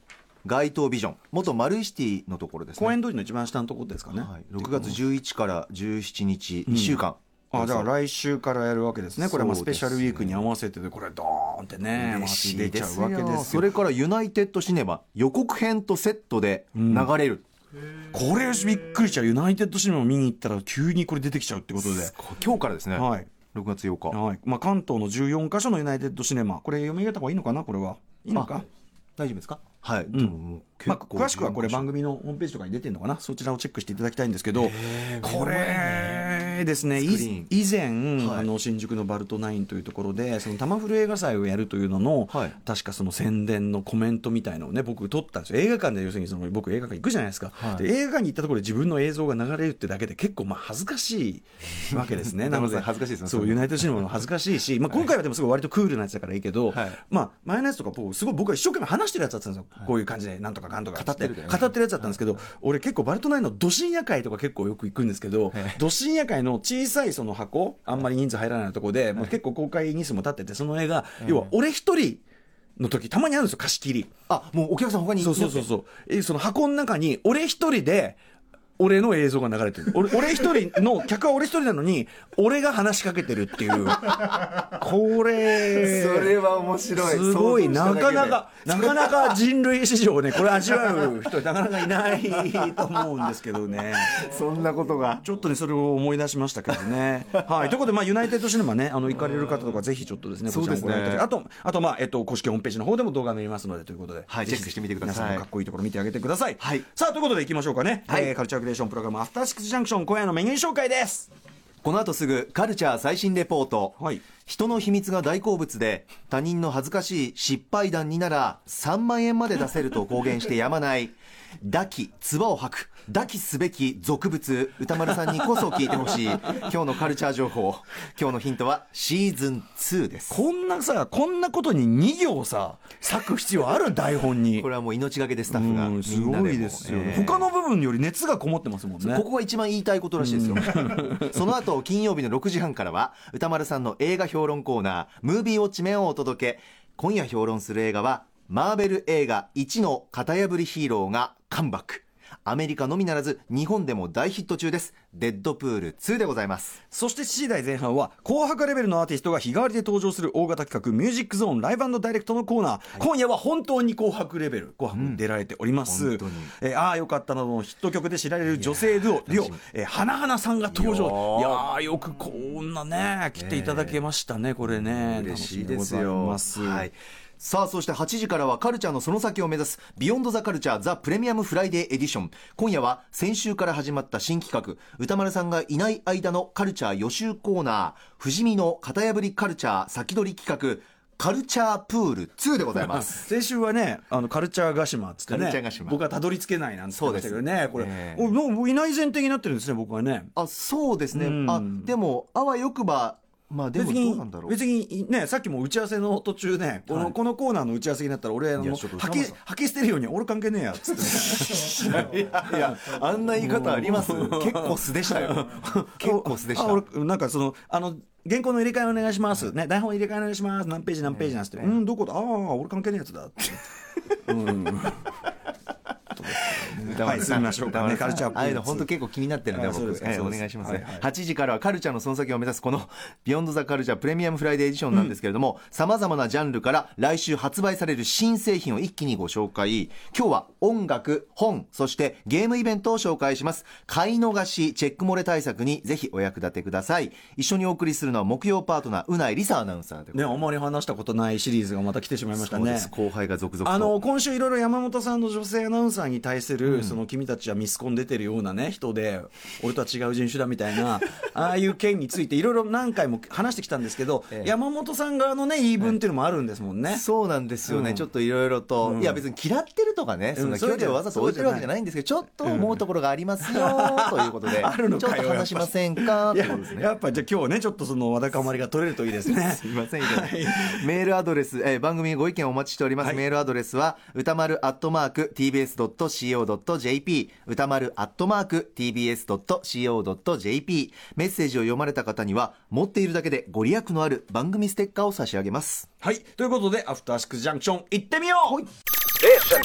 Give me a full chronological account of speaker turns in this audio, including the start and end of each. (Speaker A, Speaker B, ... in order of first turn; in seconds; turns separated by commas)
Speaker A: 0.4-3.0, Speaker B: 2.8-5.0, Speaker A: 4.1-7.9, Speaker B: 6.7-13.7, Speaker A: 9.2-10.4, Speaker A: 11.9-17.4, Speaker B: 16.8-17.1, Speaker B: 18.1-22.1, Speaker A: 21.8-24.2, Speaker B: 22.9-23.3, Speaker B: 24.1-28.6, Speaker A: 29.2-31.9, Speaker B: 30.9-72.2, Speaker A: 34.5-36.3, Speaker A: 37.0-37.5, Speaker A: 38.2-38.5, Speaker A: 42.3-42.5, Speaker A: 47.6-47.9, Speaker A: 51.9-54.0, Speaker A: 56.7-57.0, Speaker A: 60.9-62.2, Speaker A: 65.5-65.8, Speaker A: 71.2-71.5, Speaker B: 72.8-74.1, Speaker A: 74.3-75.7, Speaker B: 75.2-78.2, Speaker B: 78.8-86.4, Speaker A: 85.6-89.4, Speaker B: 87.0-94.2, Speaker A: 92.5-92.9, Speaker A: 94.0-95.2, Speaker B: 95.2-111.3, Speaker A: 100.5-101.3, Speaker A: 104.3-105.4, Speaker A: 106.6-106.8, Speaker A: 108.1-108.3, Speaker A: 111.8-130.4, Speaker B: 114.0-114.2, Speaker B: 130.3-134.7, Speaker A: 134.6-137.4, Speaker B: 135.5-139.2, Speaker A: 139.0-156.8, Speaker B: 140.2-141.3, Speaker B: 156.9-176.9, Speaker A: 164.9-165.2, Speaker A: 165.8-166.5, Speaker A: 168.5-169.6, Speaker A: 170.7-171.7, Speaker A: 173.4-174.0, Speaker A: 174.7-193.2, Speaker B: 192.8-200.3, Speaker A: 195.3-196.0, Speaker A: 196.9-198.3, Speaker A: 200.3-204.6, Speaker B: 201.1-201.9, Speaker B: 203.7-223.6, Speaker A: 206.9-207.1, Speaker A: 208.6-209.3, Speaker A: 211.1-216.8, Speaker A: 221.1-221.8, Speaker B: 224.2-225.3, Speaker B: 226.1-228.9, Speaker A: 226.8-250.4, Speaker B: 229.5-231.1, Speaker B: 250.1-252.9, Speaker A: 252.3-254.0, Speaker B: 253.6-267.0, Speaker A: 256.6-257.0, Speaker A: 266.9-276.9, Speaker B: 267.6-268.0, Speaker B: 268.8-269.2, Speaker B: 270.3-271.7, Speaker B: 272.4-272.8, Speaker B: 273.5-280.8, Speaker A: 279.2-295.9, Speaker B: 296.0-298.6